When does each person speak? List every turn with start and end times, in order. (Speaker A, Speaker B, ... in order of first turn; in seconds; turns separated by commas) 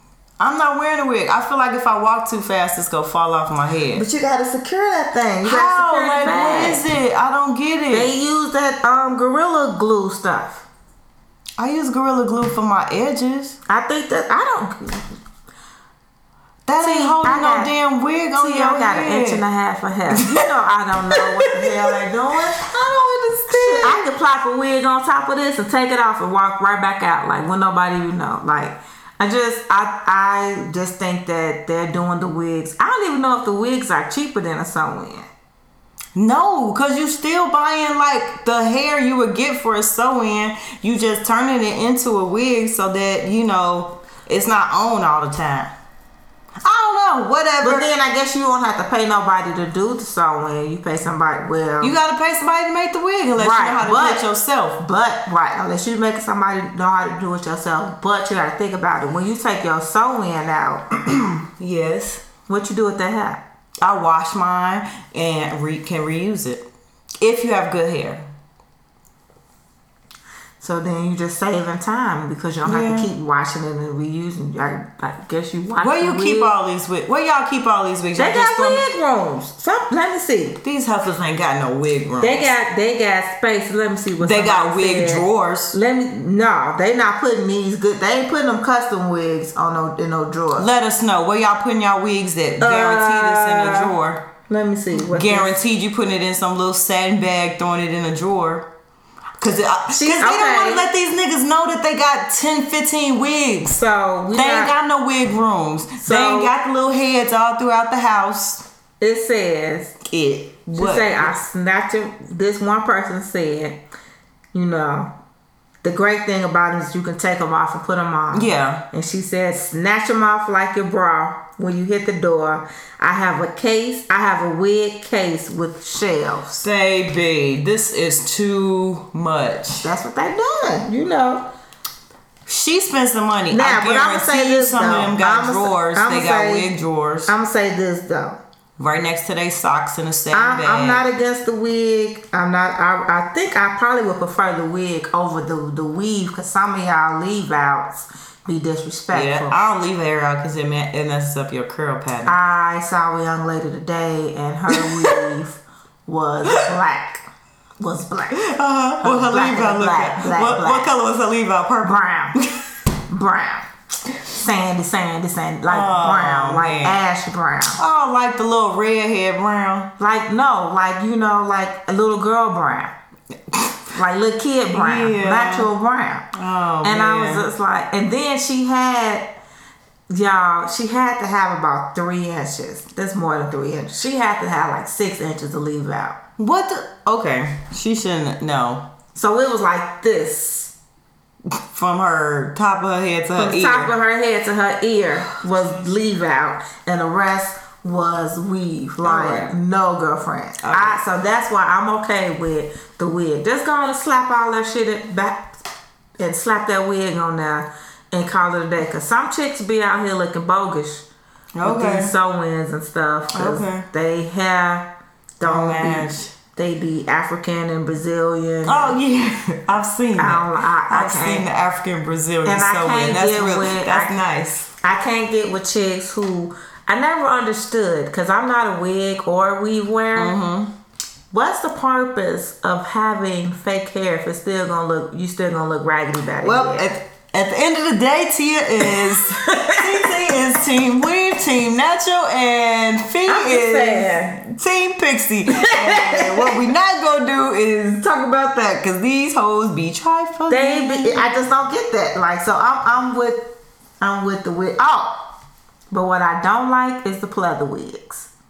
Speaker A: 0.4-4.1, Speaker B: 3.9-6.8, Speaker A: 5.4-8.1, Speaker B: 7.9-10.7, Speaker A: 11.6-13.6, Speaker B: 13.7-15.1, Speaker A: 16.7-19.4, Speaker B: 16.8-17.7, Speaker B: 18.4-22.7, Speaker A: 20.1-20.5, Speaker A: 21.1-24.1, Speaker B: 23.5-35.3, Speaker A: 36.1-45.7, Speaker A: 46.6-47.9, Speaker B: 47.6-52.0, Speaker A: 51.8-54.8, Speaker B: 53.4-54.3, Speaker B: 54.8-61.4, Speaker A: 61.6-62.2, Speaker B: 62.5-63.4, Speaker A: 63.8-66.7, Speaker A: 67.2-68.3, Speaker B: 70.6-76.5, Speaker A: 72.7-73.1, Speaker A: 75.8-78.9, Speaker B: 78.2-80.6, Speaker A: 80.6-82.5, Speaker B: 82.2-90.7, Speaker A: 84.2-85.8, Speaker A: 90.6-94.3, Speaker B: 92.6-94.0, Speaker B: 94.5-95.6, Speaker A: 94.9-98.7, Speaker A: 99.4-103.8, Speaker B: 99.9-100.8, Speaker B: 103.7-104.7, Speaker A: 104.3-108.7, Speaker B: 106.0-106.5, Speaker B: 109.0-110.0, Speaker A: 110.0-111.3, Speaker B: 110.7-113.8, Speaker B: 114.5-115.1, Speaker B: 115.8-126.6, Speaker A: 118.3-118.9, Speaker A: 126.6-129.9, Speaker B: 129.8-131.5, Speaker A: 132.5-137.3, Speaker B: 133.5-136.7, Speaker B: 137.3-138.4, Speaker A: 138.8-141.0, Speaker B: 140.3-149.6, Speaker A: 149.1-152.3, Speaker B: 152.2-157.3, Speaker A: 154.7-155.3, Speaker B: 157.8-158.5, Speaker A: 158.3-162.6, Speaker B: 159.0-160.9, Speaker B: 161.8-162.4, Speaker B: 163.1-163.7, Speaker B: 164.3-167.8, Speaker A: 165.7-167.0, Speaker A: 167.8-169.9, Speaker B: 170.0-172.9, Speaker A: 173.5-173.8, Speaker B: 173.9-176.3, Speaker A: 174.7-175.7, Speaker A: 176.3-177.5, Speaker B: 176.8-179.4, Speaker B: 180.1-186.2, Speaker A: 186.4-188.9, Speaker B: 189.2-190.7, Speaker A: 191.5-193.9, Speaker B: 193.4-205.6, Speaker A: 199.0-199.5, Speaker A: 200.6-201.0, Speaker B: 206.2-211.1, Speaker A: 211.6-212.1, Speaker B: 211.6-219.0, Speaker A: 213.3-213.9, Speaker A: 215.4-216.3, Speaker A: 218.7-224.7, Speaker B: 220.2-221.5, Speaker B: 222.4-224.2, Speaker B: 224.8-230.4, Speaker A: 230.2-230.7, Speaker B: 231.3-236.9, Speaker A: 236.4-251.3, Speaker B: 238.9-240.1, Speaker B: 243.3-244.4, Speaker B: 245.5-246.6, Speaker B: 250.5-255.3, Speaker B: 255.9-258.3